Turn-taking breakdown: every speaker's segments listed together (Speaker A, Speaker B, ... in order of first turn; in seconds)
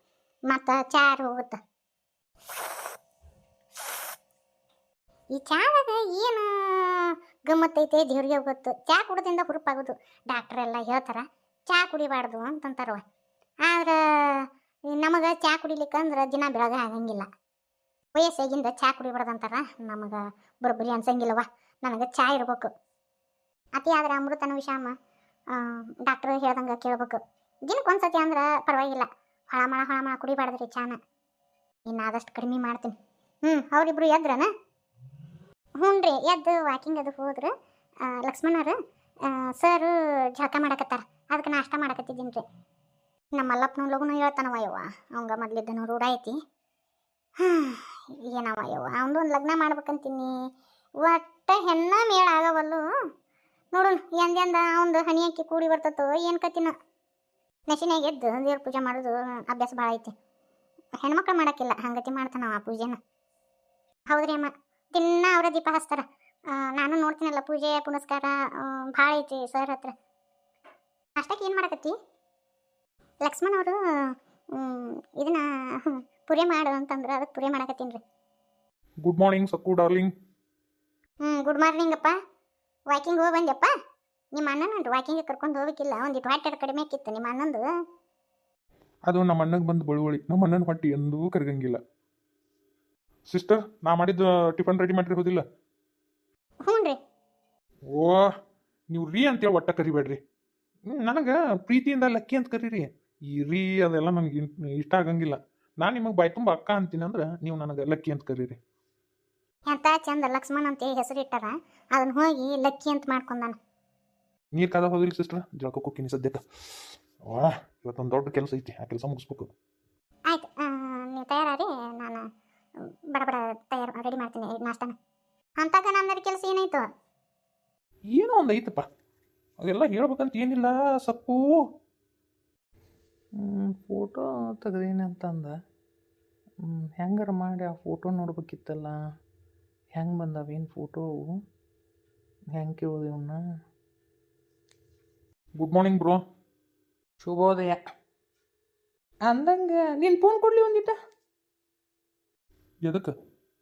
Speaker A: 0.5-1.6, 5.3-13.0, 13.7-17.3, 18.1-22.7, 23.8-24.9, 25.5-31.0, 31.9-32.9, 33.5-34.5, 35.8-37.5, 38.0-38.8, 39.3-42.4, 43.3-46.4, 47.4-50.3, 51.0-52.8, 53.7-56.7, 57.7-60.1, 61.0-63.0, 64.1-69.9, 71.2-71.9, 73.2-73.8, 74.5-78.0, 81.2-82.2, 82.9-83.7, 84.3-87.7, 96.7-97.0, 109.7-113.6, 120.3-122.2, 123.1-124.9, 125.6-126.8
Speaker B: 79.0-80.1, 89.1-91.8, 93.3-95.4, 97.9-98.2, 98.9-100.2, 100.9-108.6, 114.5-116.4, 117.3-119.5, 128.2-128.8, 129.6-131.4, 145.6-146.2, 152.8-153.1
Speaker C: 133.4-135.5, 136.6-139.0, 140.0-141.3, 142.5-143.4, 147.2-147.8, 149.3-151.0